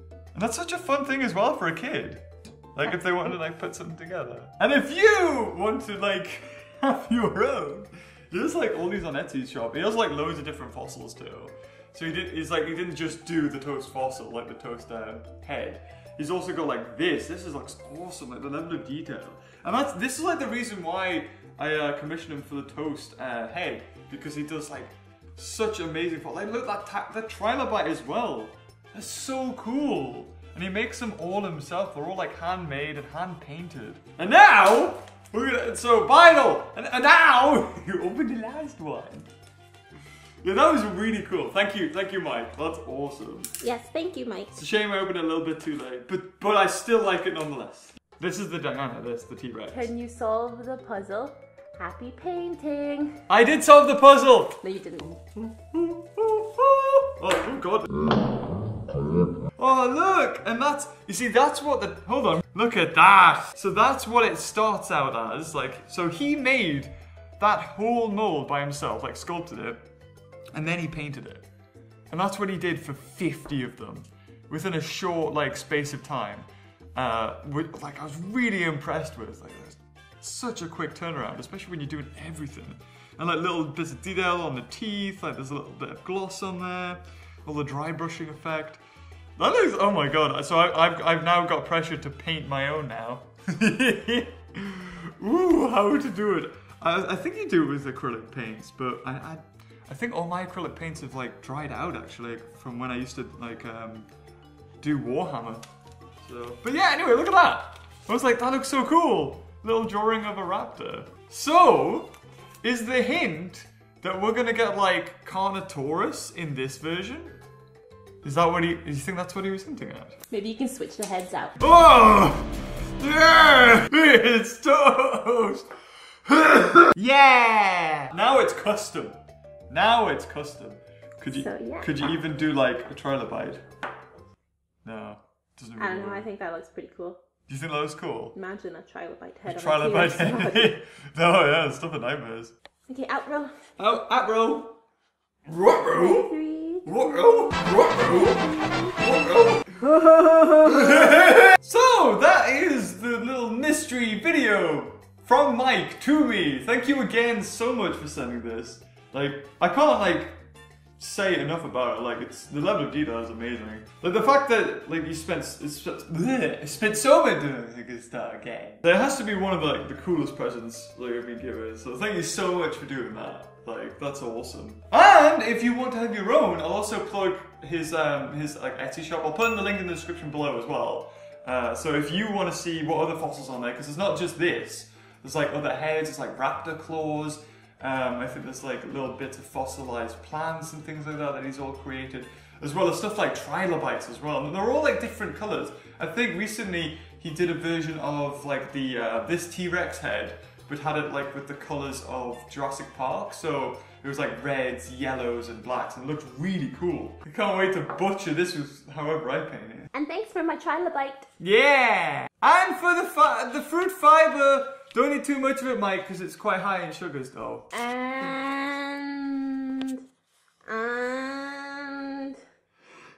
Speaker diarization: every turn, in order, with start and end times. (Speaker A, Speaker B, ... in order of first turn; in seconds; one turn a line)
Speaker A: 0.3-39.3
Speaker A: 40.4-43.5
Speaker B: 43.6-44.5
Speaker A: 44.5-49.9
Speaker B: 49.7-53.2
Speaker A: 53.3-54.6
Speaker B: 54.6-55.2
Speaker A: 55.4-58.2
Speaker A: 59.6-69.8
Speaker A: 70.5-71.5
Speaker A: 72.1-88.8
Speaker A: 89.4-104.1
Speaker A: 104.8-105.7
Speaker A: 106.2-117.4
Speaker A: 118.2-120.2
Speaker B: 120.3-121.6
Speaker A: 121.6-125.7
Speaker A: 126.2-129.2
Speaker A: 129.7-133.6
Speaker B: 131.3-131.9
Speaker A: 134.8-136.3
Speaker B: 135.8-137.2
Speaker A: 137.5-138.4
Speaker B: 138.3-140.7
Speaker A: 139.5-142.5
Speaker B: 142.9-143.6
Speaker A: 143.8-144.8
Speaker A: 145.5-146.3
Speaker B: 145.9-148.9
Speaker A: 146.8-149.9
Speaker B: 149.9-151.0
Speaker A: 150.5-160.4
Speaker A: 161.0-209.9
Speaker B: 209.9-211.3
Speaker A: 211.4-217.7
Speaker B: 217.7-220.0
Speaker B: 220.7-222.4